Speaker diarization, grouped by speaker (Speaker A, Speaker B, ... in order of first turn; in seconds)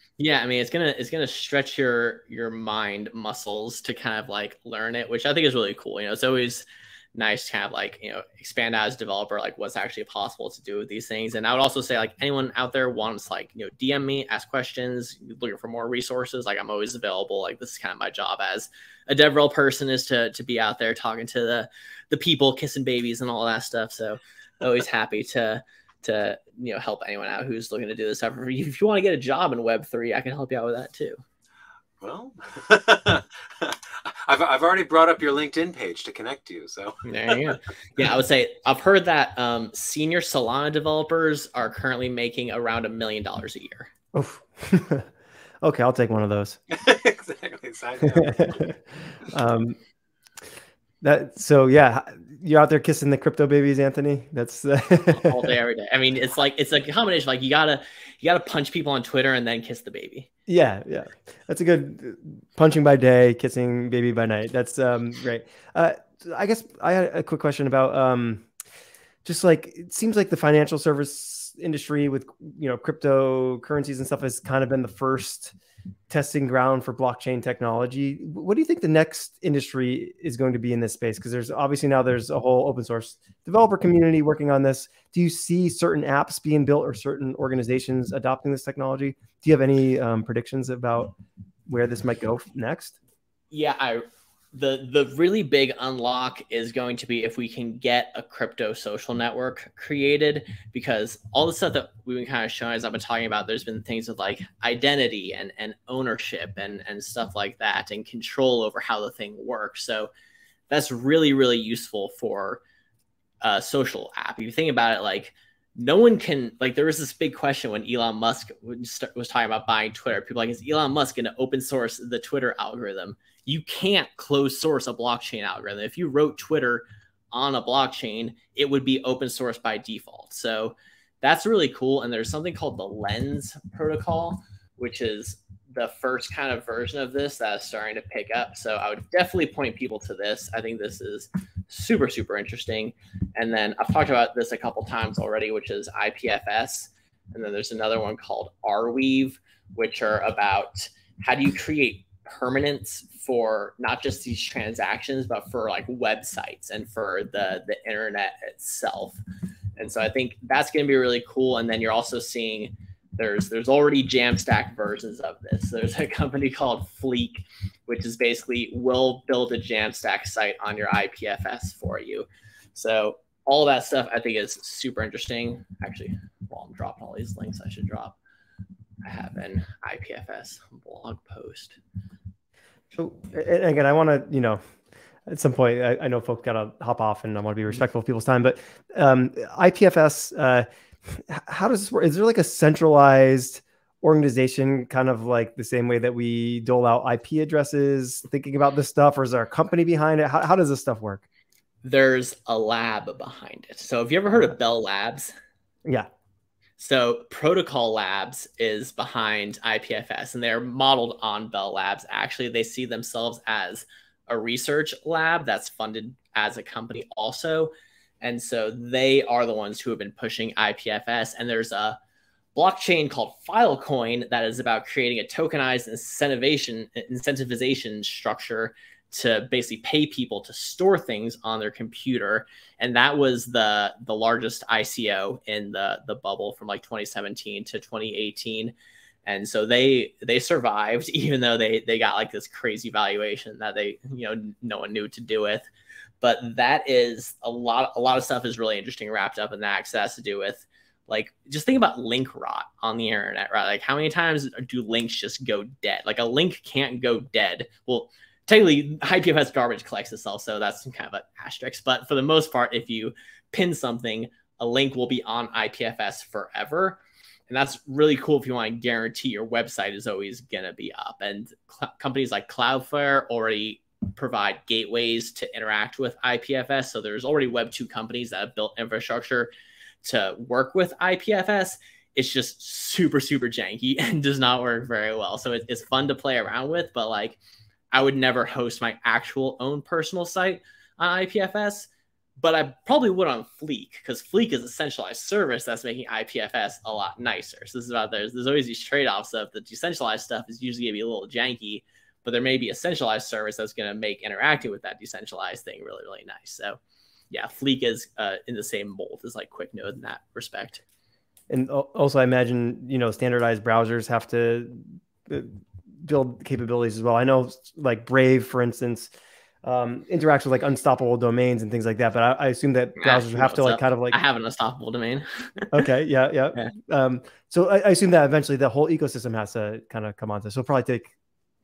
Speaker A: 0.2-31.2, 37.0-43.9, 55.1-60.3, 93.5-110.1, 110.7-112.6, 113.4-159.2, 159.8-178.2, 179.0-181.8, 201.8-205.3, 206.8-222.0, 222.5-238.7, 239.2-245.7, 246.2-279.5, 280.0-287.4, 287.9-306.8, 307.3-310.8, 323.0-325.8
Speaker B: 32.0-37.4, 46.7-48.6
Speaker C: 44.1-45.1, 45.6-46.6, 48.0-49.8, 51.0-55.5, 60.5-68.5, 69.2-75.5, 76.1-91.2, 91.7-92.9, 182.9-184.6, 185.2-201.2, 311.5-319.1, 319.6-324.2, 325.7-331.1